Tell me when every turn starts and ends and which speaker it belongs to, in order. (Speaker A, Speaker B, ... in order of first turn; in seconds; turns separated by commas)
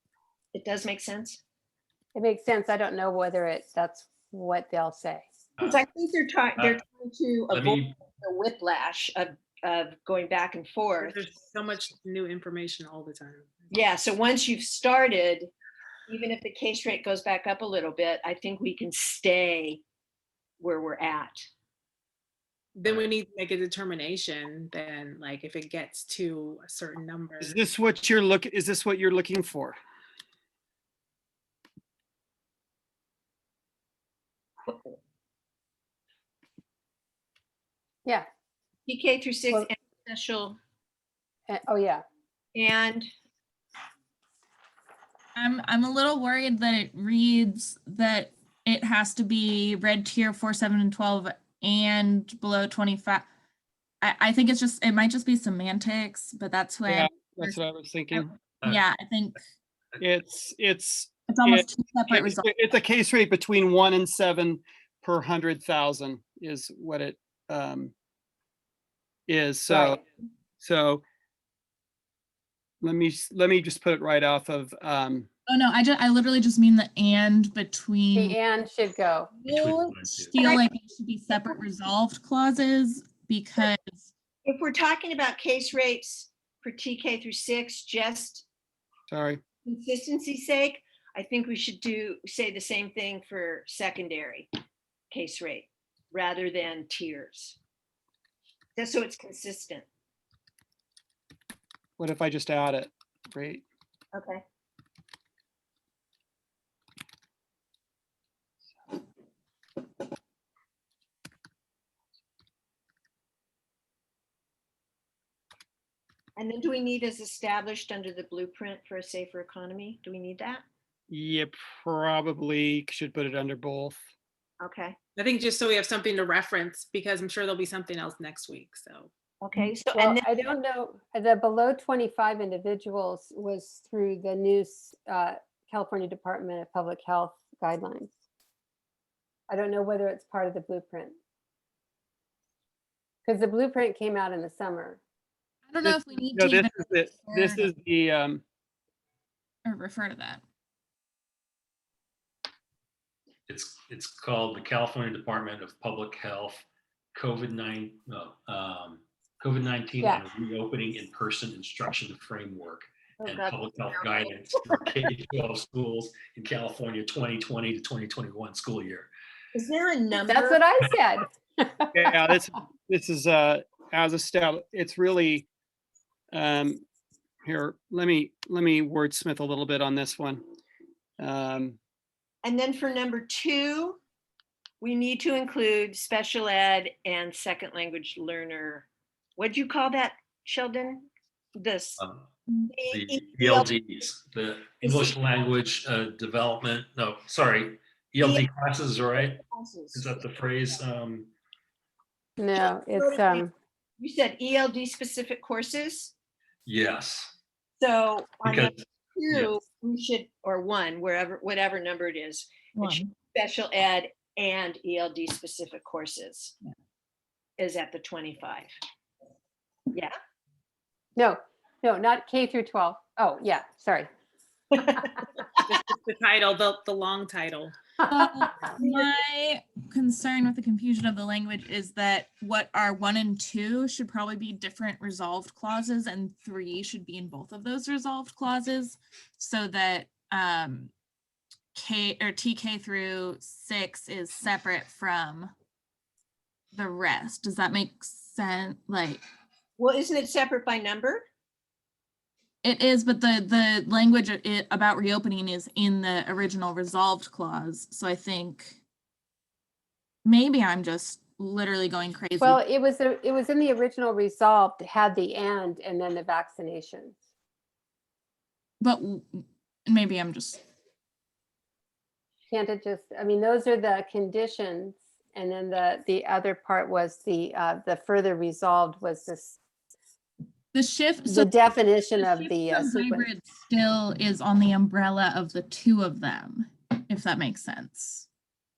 Speaker A: 0.5-1.4, Speaker B: 2.1-5.2, Speaker A: 5.6-11.2, Speaker C: 7.5-7.9, Speaker D: 11.0-13.7, Speaker A: 13.7-15.5, Speaker A: 16.1-19.8, Speaker A: 20.6-21.4, Speaker D: 22.8-27.6, Speaker E: 27.4-29.8, Speaker A: 38.9-40.6, Speaker B: 41.5-42.0, Speaker A: 42.5-43.1, Speaker F: 45.4-53.2, Speaker F: 54.0-57.6, Speaker E: 56.9-58.3, Speaker F: 58.1-59.4, Speaker E: 60.0-67.9, Speaker F: 61.3-62.4, Speaker E: 69.3-70.0, Speaker B: 69.7-70.0, Speaker E: 70.6-71.0, Speaker E: 72.8-75.3, Speaker F: 75.5-78.4, Speaker B: 78.1-79.3, Speaker F: 79.4-84.1, Speaker C: 79.5-80.4, Speaker A: 80.4-80.7, Speaker A: 84.4-88.4, Speaker E: 89.1-89.4, Speaker A: 89.6-94.5, Speaker A: 95.1-97.6, Speaker A: 98.8-99.8, Speaker E: 102.0-103.6, Speaker A: 104.1-104.4, Speaker A: 116.4-120.6, Speaker E: 121.1-124.0, Speaker A: 124.6-125.0, Speaker D: 125.2-129.1, Speaker A: 129.4-130.2, Speaker B: 129.9-138.1, Speaker B: 139.5-141.2, Speaker B: 143.2-145.0, Speaker F: 145.7-147.7, Speaker E: 145.8-148.4, Speaker F: 149.6-150.4, Speaker C: 153.5-169.1, Speaker A: 163.2-164.7, Speaker A: 169.5-170.6, Speaker B: 170.2-171.9, Speaker E: 171.9-175.5, Speaker E: 176.3-176.8, Speaker E: 177.4-180.4, Speaker E: 181.2-181.8, Speaker A: 182.4-184.0, Speaker A: 184.8-192.0, Speaker C: 192.0-192.2, Speaker A: 192.7-193.7, Speaker C: 192.9-199.4, Speaker A: 194.8-195.2, Speaker A: 198.2-198.5, Speaker A: 199.1-200.1, Speaker C: 199.9-201.3, Speaker B: 202.4-203.5, Speaker A: 202.6-203.4, Speaker A: 204.0-206.1, Speaker C: 206.7-207.3, Speaker A: 207.8-216.5, Speaker C: 208.4-209.5, Speaker F: 212.8-213.1, Speaker A: 217.6-218.7, Speaker B: 221.2-224.1, Speaker A: 224.8-225.1, Speaker D: 225.6-227.8, Speaker F: 228.0-240.9, Speaker F: 241.7-245.5, Speaker F: 246.7-249.2, Speaker A: 249.8-251.2, Speaker F: 252.6-258.8, Speaker F: 260.2-262.6, Speaker B: 262.4-267.2, Speaker F: 268.8-270.6, Speaker B: 272.5-279.6, Speaker F: 280.7-281.5, Speaker B: 281.3-283.3, Speaker F: 282.1-288.2